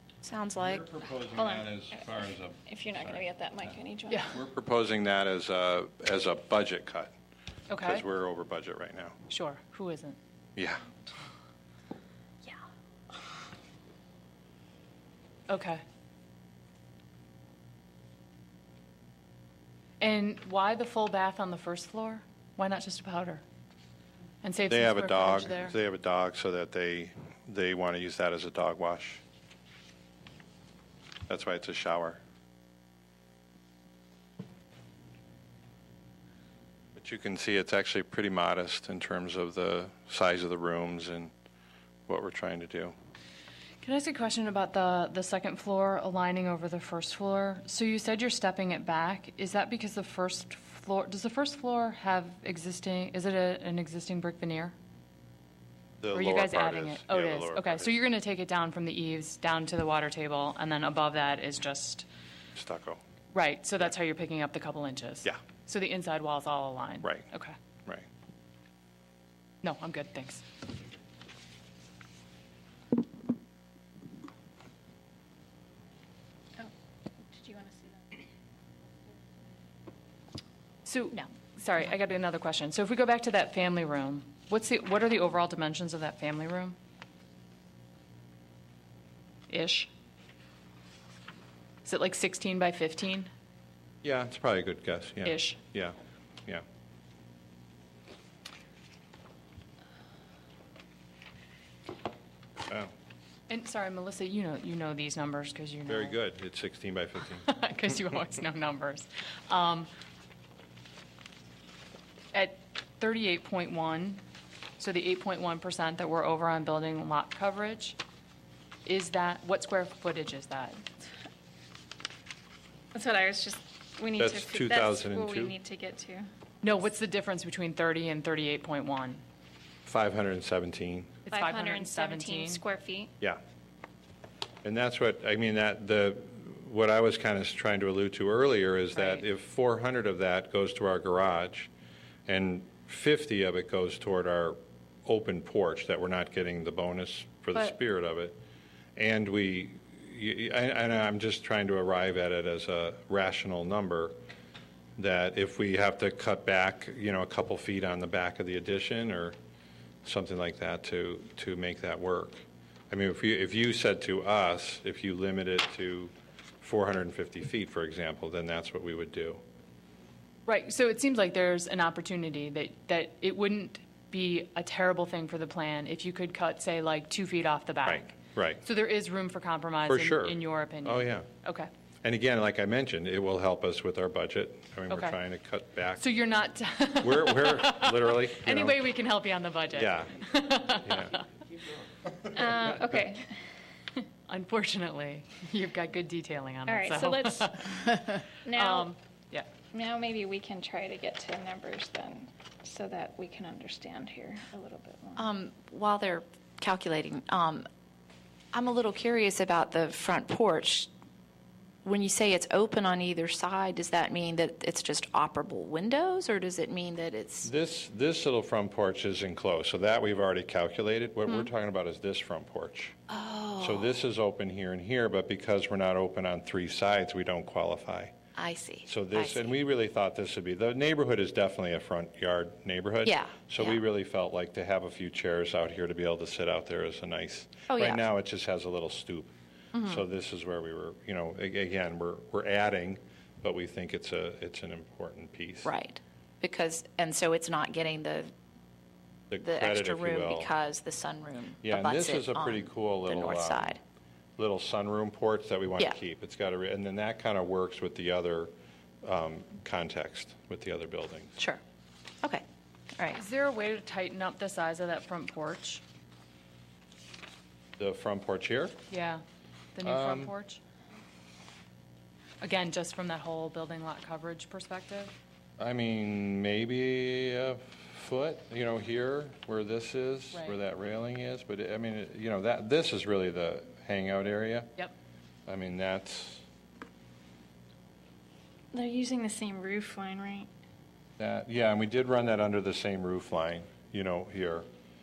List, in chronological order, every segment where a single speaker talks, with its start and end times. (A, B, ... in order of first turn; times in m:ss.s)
0:00.2-0:00.9 A
0:00.6-0:03.7 B
0:01.3-0:01.7 C
0:02.7-0:04.4 C
0:04.3-0:07.1 B
0:07.7-0:08.0 D
0:07.8-0:09.2 B
0:09.3-0:10.2 D
0:15.5-0:15.8 D
0:20.0-0:23.4 D
0:24.4-0:25.8 D
0:24.7-0:29.2 B
0:31.3-0:32.2 B
0:37.0-0:41.3 B
0:42.1-0:42.9 B
0:43.8-0:54.8 D
0:56.0-0:58.0 B
0:56.1-1:02.1 D
1:02.6-1:03.0 B
1:03.3-1:07.6 D
1:09.6-1:10.4 D
1:17.3-1:18.0 C
1:20.9-1:26.8 D
1:29.5-1:29.9 D
1:31.8-1:33.3 D
1:34.0-1:36.6 B
1:35.2-1:35.6 D
1:43.5-1:46.2 D
1:45.9-1:47.5 B
1:47.4-1:49.9 D
1:52.3-1:54.2 D
1:54.8-1:58.0 D
1:58.9-2:00.8 D
2:02.9-2:06.3 C
2:04.2-2:05.6 B
2:06.6-2:09.2 D
2:09.9-2:11.2 B
2:11.3-2:12.6 D
2:11.3-2:13.1 C
2:14.6-2:21.7 B
2:18.9-2:19.2 D
2:22.3-2:28.4 B
2:29.0-2:34.2 B
2:35.0-2:39.4 B
2:40.0-2:49.4 B
2:50.5-3:01.7 D
2:57.9-2:58.6 B
2:59.9-3:01.3 B
3:02.0-3:06.1 B
3:04.9-3:05.2 D
3:06.0-3:11.2 D
3:07.0-3:08.8 B
3:09.8-3:10.2 B
3:10.8-3:11.2 B
3:12.3-3:13.3 C
3:14.3-3:19.5 D
3:16.7-3:17.7 C
3:18.5-3:18.9 C
3:19.7-3:25.3 C
3:25.2-3:27.7 A
3:28.5-3:30.9 A
3:31.8-3:37.5 A
3:37.4-3:43.0 B
3:43.1-3:44.0 A
3:43.6-3:48.2 B
3:48.4-3:49.5 A
3:48.9-3:59.3 B
3:53.0-3:53.8 A
3:57.7-3:58.0 A
3:59.7-4:00.0 A
3:59.8-4:05.7 B
4:05.6-4:08.3 A
4:09.3-4:10.5 B
4:09.4-4:13.8 A
4:11.6-4:13.8 B
4:14.4-4:18.5 B
4:19.0-4:21.4 B
4:23.1-4:25.8 D
4:27.8-4:28.8 B
4:28.9-4:29.2 D
4:29.8-4:30.6 D
4:29.8-4:30.3 B
4:32.4-4:35.1 D
4:35.6-4:44.8 B
4:40.3-4:40.6 D
4:45.5-4:46.4 B
4:48.7-4:50.5 C
4:51.2-4:54.7 B